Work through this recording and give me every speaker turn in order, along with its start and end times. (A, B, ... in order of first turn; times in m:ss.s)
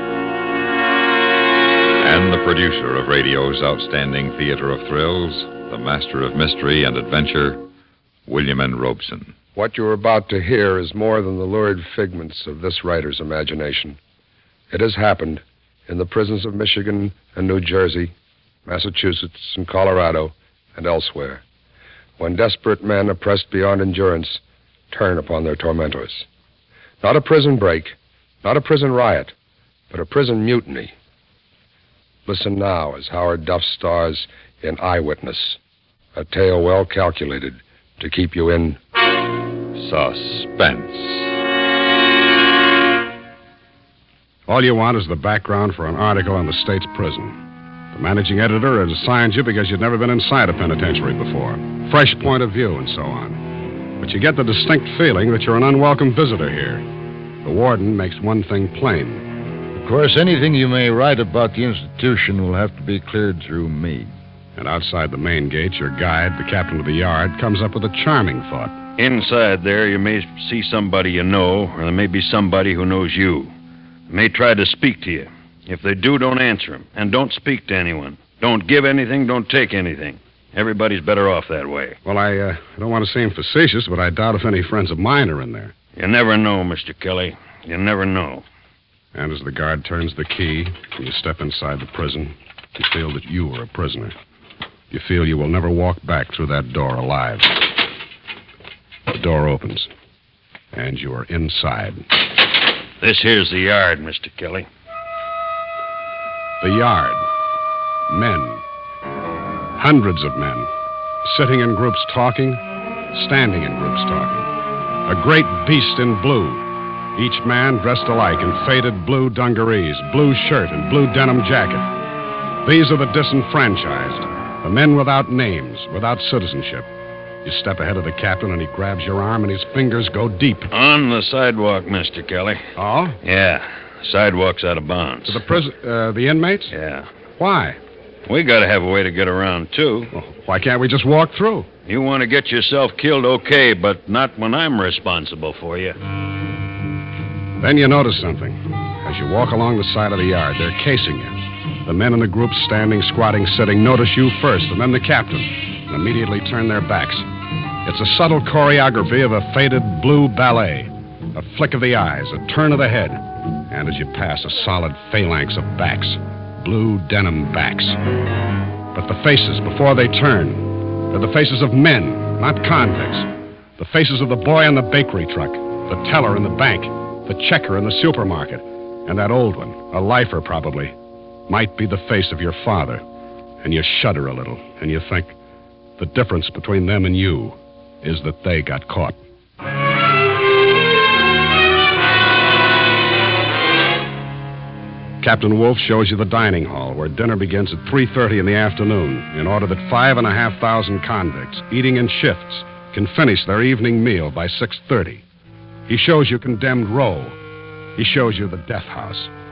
0:02.0-0:07.6 A
0:08.2-0:09.3 A
0:09.5-0:14.0 B
0:14.7-0:18.1 B
0:18.6-0:21.4 B
0:22.2-0:24.4 B
0:24.9-0:26.2 B
0:27.0-0:29.3 B
0:29.9-0:30.9 B
0:32.2-0:35.6 B
0:36.1-0:38.8 B
0:39.7-0:41.4 A
0:44.5-0:47.4 C
0:47.9-0:53.4 C
0:54.0-0:56.8 C
0:57.4-0:59.3 C
0:59.7-1:04.1 D
1:04.6-1:08.8 C
1:09.0-1:13.5 E
1:14.1-1:22.0 E
1:22.0-1:25.7 C
1:26.0-1:28.4 E
1:29.1-1:34.2 C
1:34.9-1:37.8 C
1:39.1-1:39.9 C
1:40.7-1:42.0 C
1:43.0-1:44.7 E
1:46.6-1:47.2 C
1:48.1-1:48.6 C
1:49.8-1:50.7 C
1:51.2-1:52.6 C
1:53.1-1:54.5 C
1:55.0-1:56.6 C
1:57.1-2:01.9 C
2:02.6-2:06.9 C
2:07.4-2:10.7 C
2:10.7-2:12.7 E
2:12.8-2:13.2 C
2:13.2-2:15.4 E
2:15.2-2:16.7 C
2:16.7-2:17.1 E
2:17.4-2:17.8 C
2:18.3-2:20.1 E
2:20.1-2:21.7 C
2:21.9-2:26.0 E
2:27.6-2:37.3 C
2:37.8-2:48.0 C
2:48.9-3:00.9 C
3:01.5-3:03.0 C
3:03.6-3:05.4 C
3:06.0-3:09.2 C
3:15.2-3:25.2 C
3:25.9-3:27.4 C
3:28.0-3:29.3 C